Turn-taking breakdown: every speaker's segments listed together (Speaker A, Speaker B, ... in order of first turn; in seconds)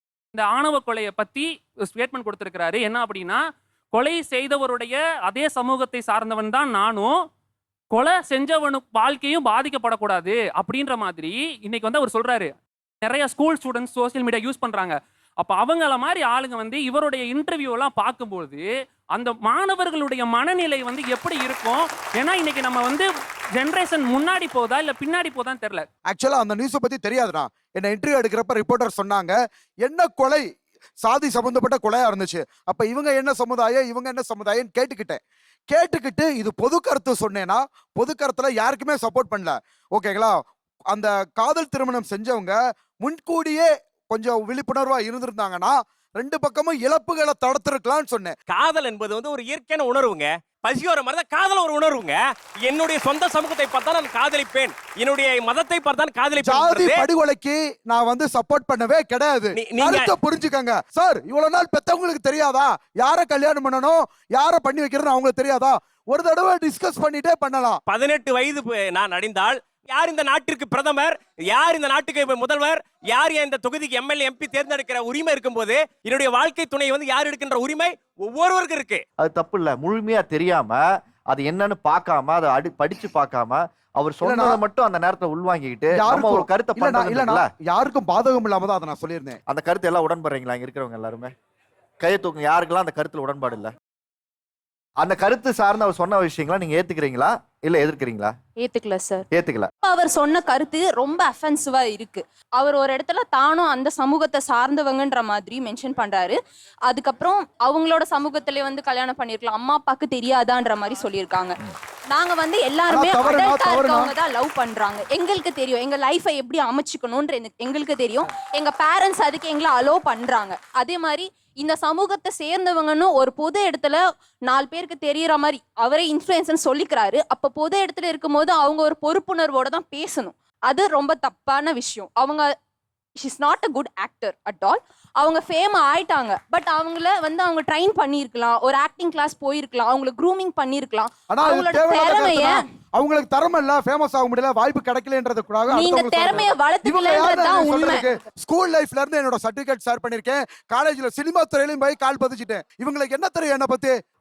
Speaker A: 0.3-7.1, 7.9-25.8
Speaker B: 26.1-30.4, 31.0-48.3, 56.4-67.8, 84.2-84.6, 85.9-89.4, 112.9-114.1, 141.3-153.9
Speaker C: 48.5-57.0, 59.5-60.1, 67.8-79.0
Speaker D: 79.2-87.5, 89.5-91.3, 92.0-93.7, 95.0-98.3, 99.3-99.7
Speaker E: 98.6-99.2, 99.8-111.5, 112.1-132.5, 133.2-142.6, 145.7-148.1